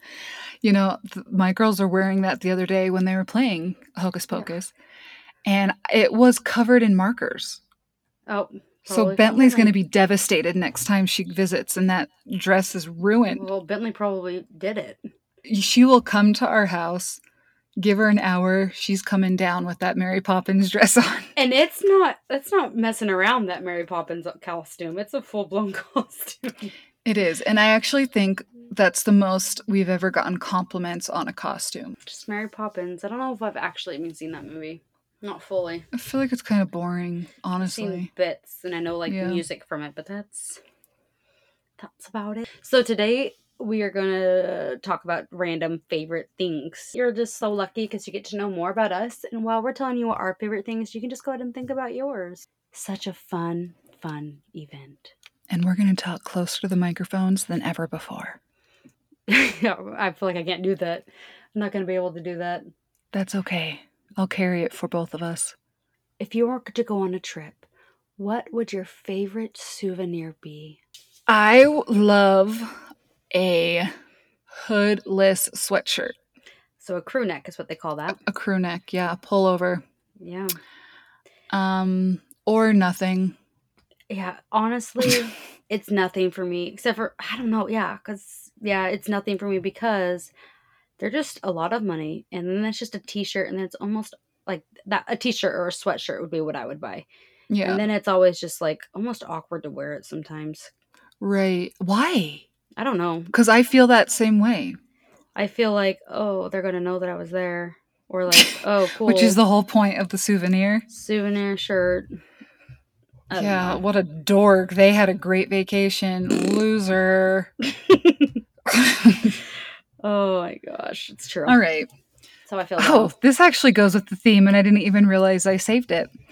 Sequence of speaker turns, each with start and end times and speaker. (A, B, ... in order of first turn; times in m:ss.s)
0:00.6-0:04.7 A
0:05.4-0:07.6 A
0:08.3-0:09.7 B
0:08.8-0:13.4 A
0:13.3-0:15.0 B
0:15.4-0:17.2 A
0:17.8-0:21.3 A
0:21.4-0:26.7 B
0:27.0-0:32.0 A
0:32.0-0:35.9 B
0:35.9-0:38.1 A
0:37.6-0:40.6 B
0:39.1-0:39.4 A
0:41.8-0:55.1 B
0:55.5-0:58.4 A
0:59.3-1:02.7 B
1:03.1-1:05.5 A
1:06.2-1:07.6 B
1:08.2-1:10.8 B
1:11.3-1:12.8 A
1:13.3-1:13.9 A
1:14.5-1:16.2 A
1:16.8-1:18.2 B
1:18.1-1:19.8 A
1:20.2-1:20.6 B
1:21.5-1:23.4 A
1:24.1-1:30.3 B
1:31.0-1:37.0 B
1:37.5-1:37.8 A
1:37.6-1:40.7 B
1:41.2-1:42.4 A
1:42.8-1:43.3 B
1:43.3-1:44.8 A
1:45.4-1:49.4 B
1:49.0-1:50.8 A
1:50.9-1:52.1 B
1:53.3-1:53.8 B
1:53.3-1:57.5 A
1:57.6-1:58.4 B
1:58.7-1:59.4 A
2:00.0-2:01.6 B
2:01.4-2:01.9 A
2:02.5-2:03.1 B
2:02.8-2:06.1 A